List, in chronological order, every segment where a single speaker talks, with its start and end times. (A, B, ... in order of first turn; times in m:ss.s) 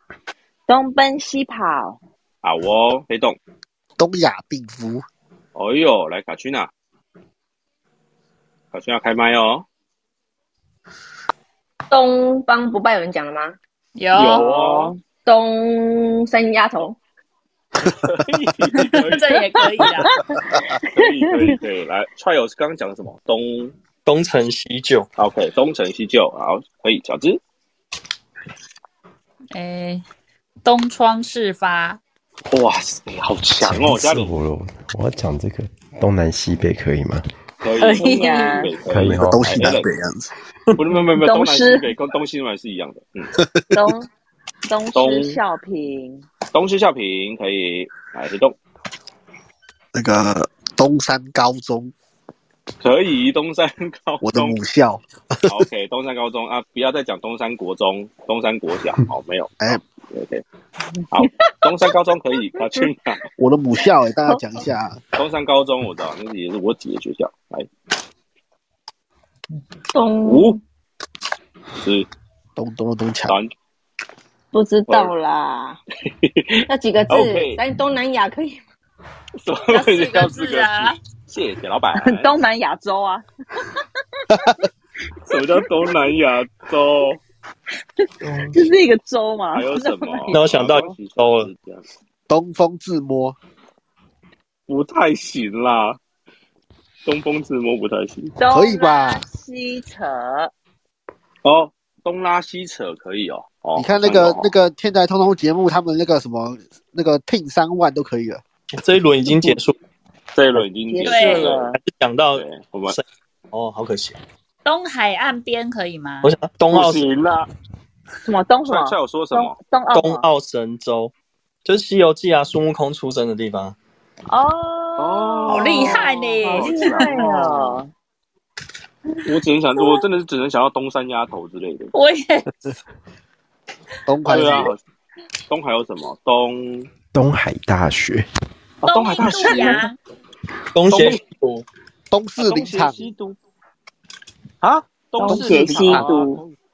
0:00.7-0:02.0 A
0:02.4-0:03.4 B
0:04.0-0:05.0 C
0:05.6-0:06.7 B
0:08.7-0:09.7 B
0:11.9-0:13.6 D
0:14.0-0:14.5 E
0:14.1-0:14.9 B
0:14.3-0:15.0 A
0:15.2-0:17.0 D
0:17.8-0:20.0 B
0:18.8-0:20.2 E
0:20.8-0:23.7 B
0:21.3-0:21.6 A
0:24.0-0:25.1 F
0:25.2-0:27.4 B
0:29.5-0:30.0 E
0:30.6-0:32.0 E
0:32.5-0:34.3 B
0:33.6-0:37.3 G
0:37.6-0:39.9 B
0:37.9-0:38.6 E
0:38.0-0:38.7 D
0:38.0-0:38.3 A
0:38.9-0:39.8 G
0:39.2-0:40.3 C
0:40.8-0:43.3 B
0:41.2-0:41.9 D
0:43.7-0:44.1 A
0:44.7-0:46.3 A
0:44.9-0:45.4 B
0:46.5-0:48.6 B
0:49.9-0:51.9 C
0:52.8-0:54.6 B
0:54.2-0:55.6 C
0:55.5-1:00.4 B
1:01.1-1:03.2 B
1:03.4-1:05.0 C
1:05.2-1:07.7 B
1:09.9-1:10.6 D
1:10.2-1:10.6 B
1:11.8-1:12.1 B
1:12.6-1:13.4 C
1:14.5-1:15.8 D
1:14.9-1:15.1 B
1:16.1-1:17.6 B
1:16.7-1:18.6 D
1:19.4-1:22.3 B
1:19.7-1:21.0 E
1:22.0-1:23.8 A
1:25.2-1:27.2 B
1:28.5-1:30.3 A
1:29.5-1:31.8 B
1:30.3-1:31.5 F
1:32.3-1:33.4 C
1:34.7-1:36.0 B
1:37.0-1:38.3 B
1:38.4-1:40.5 A
1:38.5-1:39.2 C
1:41.4-1:44.5 B
1:43.8-1:48.4 C
1:48.7-1:49.8 F
1:50.3-1:51.7 B
1:51.0-1:51.5 E
1:51.1-1:51.8 A
1:51.1-1:51.3 D
1:51.7-1:54.2 F
1:52.3-1:53.0 B
1:54.6-1:56.3 E
1:56.2-1:57.1 F
1:56.7-1:57.5 B
1:58.3-2:00.2 A
1:58.7-1:59.6 B
1:59.9-2:01.1 F
2:01.6-2:03.8 F
2:04.3-2:07.9 A
2:05.0-2:07.7 B
2:05.5-2:07.2 E
2:09.2-2:11.9 B
2:11.9-2:12.5 E
2:14.1-2:14.7 C
2:14.3-2:14.8 B
2:15.5-2:16.9 B
2:17.1-2:18.3 G
2:18.8-2:19.9 B
2:18.9-2:20.0 E
2:20.7-2:21.7 F
2:20.9-2:21.2 B
2:22.1-2:23.0 C
2:22.4-2:23.4 B
2:24.6-2:26.5 B
2:25.2-2:26.4 A